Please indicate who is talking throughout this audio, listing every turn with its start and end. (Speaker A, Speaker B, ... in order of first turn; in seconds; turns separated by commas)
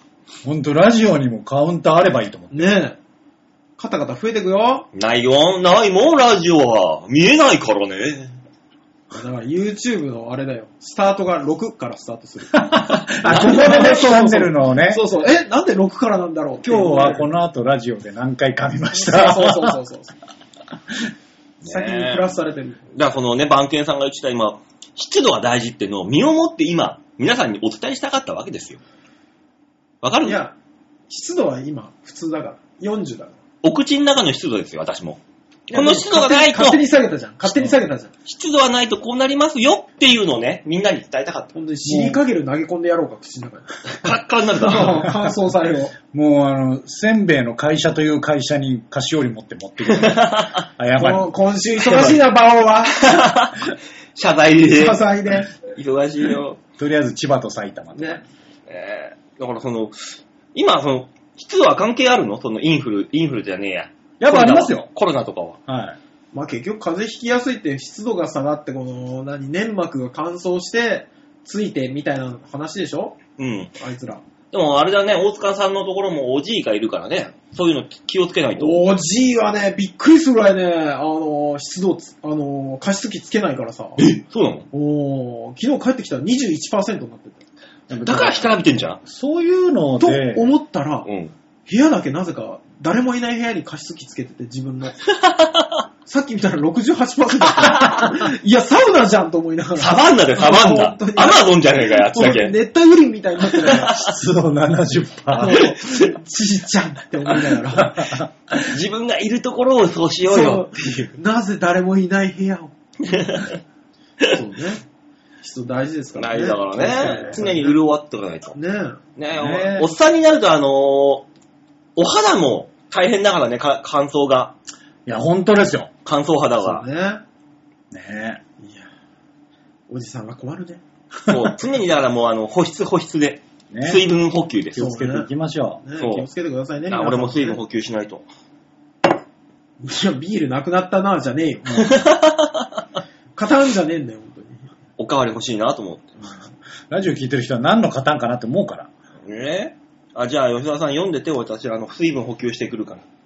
Speaker A: 0.4-2.8, Speaker B: 2.5-3.0, Speaker B: 3.8-4.9, Speaker C: 4.9-8.3, Speaker B: 9.1-17.3, Speaker A: 12.5-15.0, Speaker A: 16.6-19.8, Speaker B: 18.9-20.2, Speaker C: 21.6-22.3, Speaker B: 21.6-22.8, Speaker C: 22.9-28.8, Speaker C: 30.0-30.4, Speaker B: 30.2-30.6, Speaker B: 31.1-33.4, Speaker C: 33.6-35.2, Speaker C: 35.7-36.8, Speaker B: 35.7-38.1, Speaker C: 38.3-41.6, Speaker B: 41.5-46.0, Speaker A: 41.9-42.2, Speaker C: 43.9-45.1, Speaker A: 46.1-51.3, Speaker C: 49.9-50.6, Speaker B: 51.0-53.3, Speaker C: 51.8-52.2, Speaker C: 53.0-56.6, Speaker B: 54.7-55.5, Speaker A: 56.8-58.2, Speaker C: 58.7-65.6, Speaker A: 64.2-64.9, Speaker A: 65.7-66.0, Speaker B: 66.3-73.2, Speaker C: 73.4-73.7, Speaker B: 73.8-74.2, Speaker C: 74.5-78.8, Speaker B: 78.6-84.0, Speaker C: 84.0-84.7, Speaker B: 84.7-87.4, Speaker A: 87.9-90.5, Speaker C: 87.9-89.0, Speaker B: 90.0-91.1, Speaker C: 91.1-91.3, Speaker B: 91.7-95.0, Speaker C: 95.2-95.7, Speaker B: 96.1-104.0, Speaker C: 99.8-102.5, Speaker C: 103.6-104.1, Speaker A: 103.9-105.7, Speaker B: 105.3-108.2, Speaker C: 105.8-106.1, Speaker A: 107.8-108.5, Speaker C: 108.6-110.7, Speaker B: 110.3-112.7, Speaker C: 113.1-113.6, Speaker B: 114.2-114.8, Speaker B: 115.4-117.8, Speaker C: 116.2-118.6, Speaker B: 118.5-119.0, Speaker C: 119.2-121.2, Speaker A: 119.3-119.9, Speaker C: 122.0-124.5, Speaker A: 125.1-125.9, Speaker C: 126.0-126.8, Speaker B: 126.6-127.2, Speaker A: 127.9-128.4, Speaker B: 128.6-128.9, Speaker B: 129.9-130.8, Speaker C: 131.3-134.8, Speaker A: 133.7-134.0, Speaker A: 134.7-135.8, Speaker B: 134.8-135.3, Speaker B: 135.8-137.6, Speaker C: 136.0-136.3, Speaker C: 136.9-138.3, Speaker B: 139.8-142.0, Speaker C: 141.7-142.7, Speaker B: 143.3-144.7, Speaker C: 145.0-146.1, Speaker A: 146.9-148.9, Speaker C: 149.2-153.0